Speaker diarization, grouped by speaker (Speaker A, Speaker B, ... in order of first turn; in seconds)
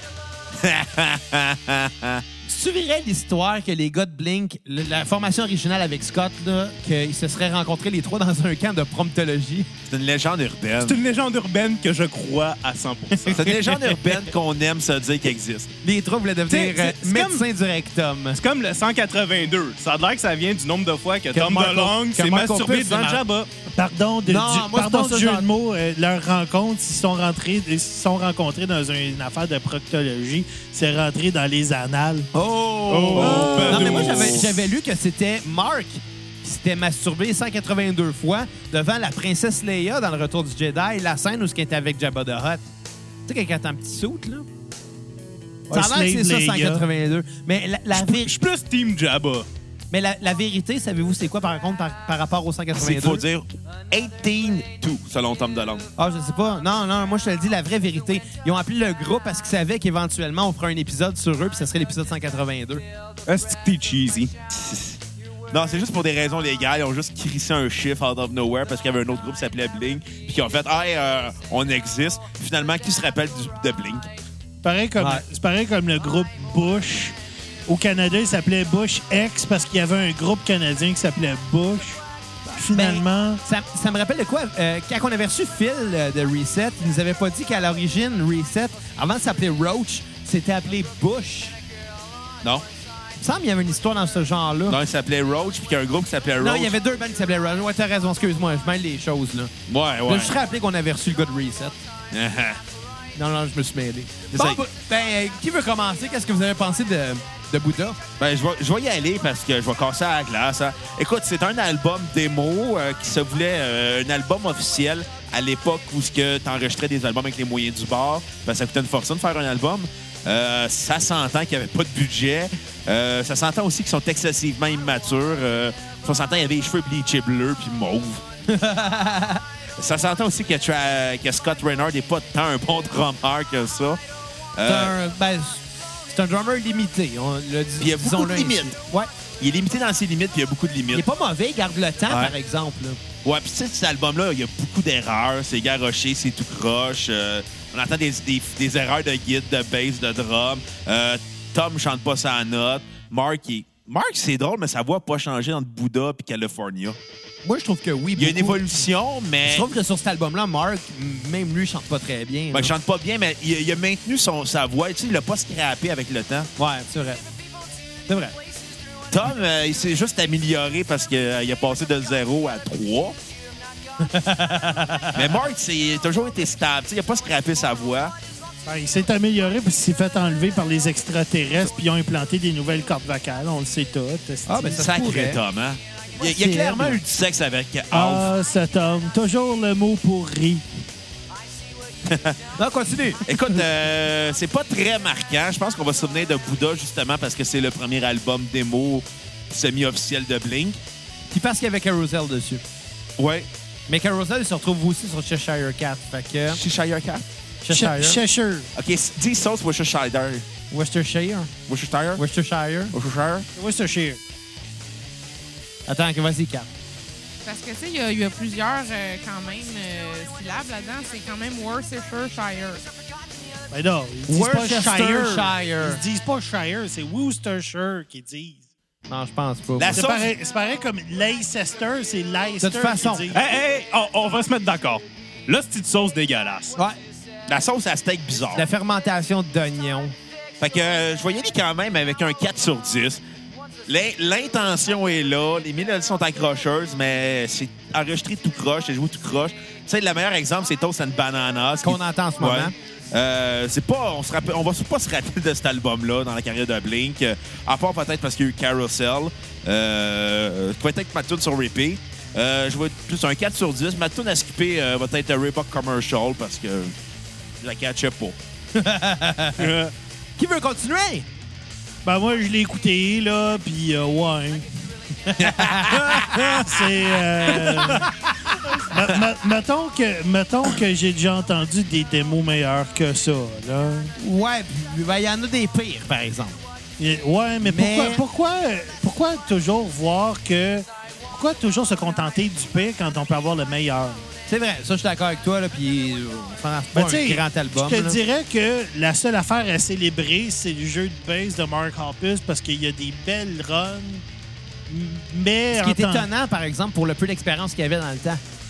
Speaker A: 0.5-2.2, 9.9-11.0, 13.3-15.7, 33.1-34.5, 52.7-55.9, 65.5-74.1, 94.7-96.8, 99.7-100.3, 102.1-102.6, 104.3-104.6, 108.2-128.2, 129.8-134.0, 134.6-134.9, 137.8-138.7, 139.4-141.0, 142.1-142.3, 143.2-157.0, 158.2-159.7, 162.5-166.5, 169.1-173.2, 175.1-178.1, 184.7-188.3, 192.0-192.4, 193.2-200.8, 203.2-203.5, 206.5-207.2, 208.7-210.4, 211.7-212.2, 212.9-213.5, 229.8-230.3, 237.5-238.7, 240.6-243.2, 243.8-266.9, 267.6-268.4, 275.4-276.4
Speaker B: 2.5-9.7, 15.8-18.4, 21.3-23.2, 24.2-25.5, 32.3-42.6, 43.3-44.5, 45.7-48.4, 49.9-53.2, 56.0-62.8, 75.0-75.2, 82.5-91.5, 93.2-94.8, 96.4-99.5, 100.0-101.8, 103.2-108.0, 128.5-129.4, 134.6-139.1, 140.9-143.0, 157.4-158.8, 159.4-162.7, 166.6-167.2, 168.1-168.3, 174.0-175.4, 184.4-185.4, 186.4-186.9, 192.6-193.2, 201.3-202.6, 203.9-206.6, 207.6-208.2, 210.7-211.5, 212.2-212.9, 215.9-216.7, 224.3-226.0, 229.1-230.1, 232.6-233.3, 238.5-240.1, 251.8-252.7, 268.7-269.7, 270.4-271.2, 275.2-276.6, 284.2-286.6, 287.6-288.2, 294.5-298.2, 305.7-308.4
Speaker C: 10.8-14.0, 16.5-17.4, 18.3-23.5, 32.9-34.4, 47.9-49.5, 63.3-64.3, 233.3-236.8, 269.6-269.9
Speaker D: 23.7-32.3, 33.2-33.8, 45.7-46.9, 74.6-77.1, 77.7-82.0, 82.5-83.4, 178.7-184.9, 187.9-190.6, 207.7-208.7, 213.6-214.2, 223.7-228.6, 229.9-233.4, 272.0-274.6, 276.5-278.1, 278.8-284.1, 287.0-294.2, 296.9-304.2, 304.9-306.3
Speaker E: 217.4-222.8